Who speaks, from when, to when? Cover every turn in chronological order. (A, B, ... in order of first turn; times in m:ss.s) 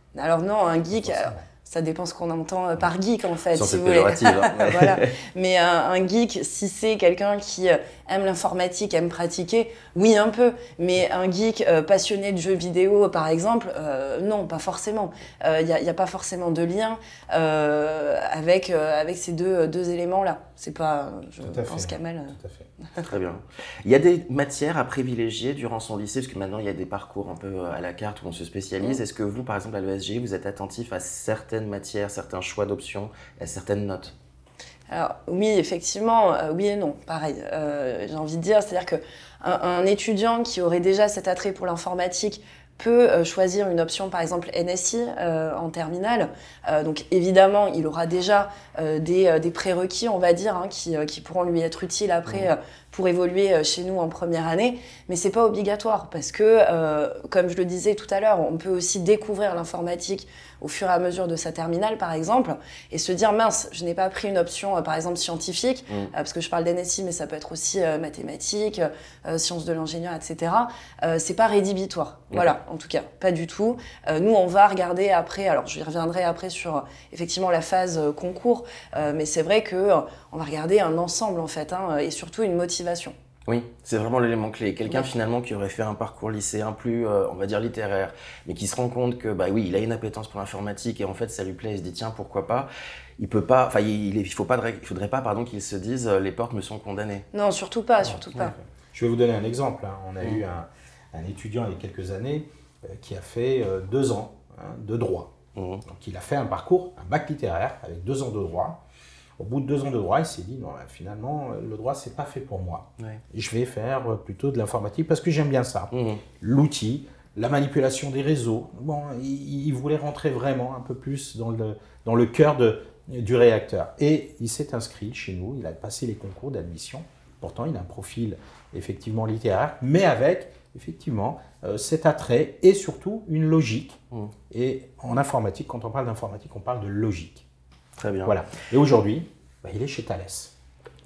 0:00.1-0:22.4 A
0:00.9-0:01.4 B
0:03.5-0:05.1 C
0:21.4-0:22.7 B
0:23.0-0:34.1 C
0:34.9-1:23.1 A
1:23.5-1:32.7 C
1:33.2-1:37.2 C
1:37.3-1:38.5 A
1:38.0-1:45.3 B
1:45.6-1:45.8 C
1:45.9-1:48.8 B
1:49.4-2:14.0 B
1:55.9-1:56.2 C
2:14.5-2:17.4 B
2:18.0-2:18.4 C
2:18.2-2:20.5 B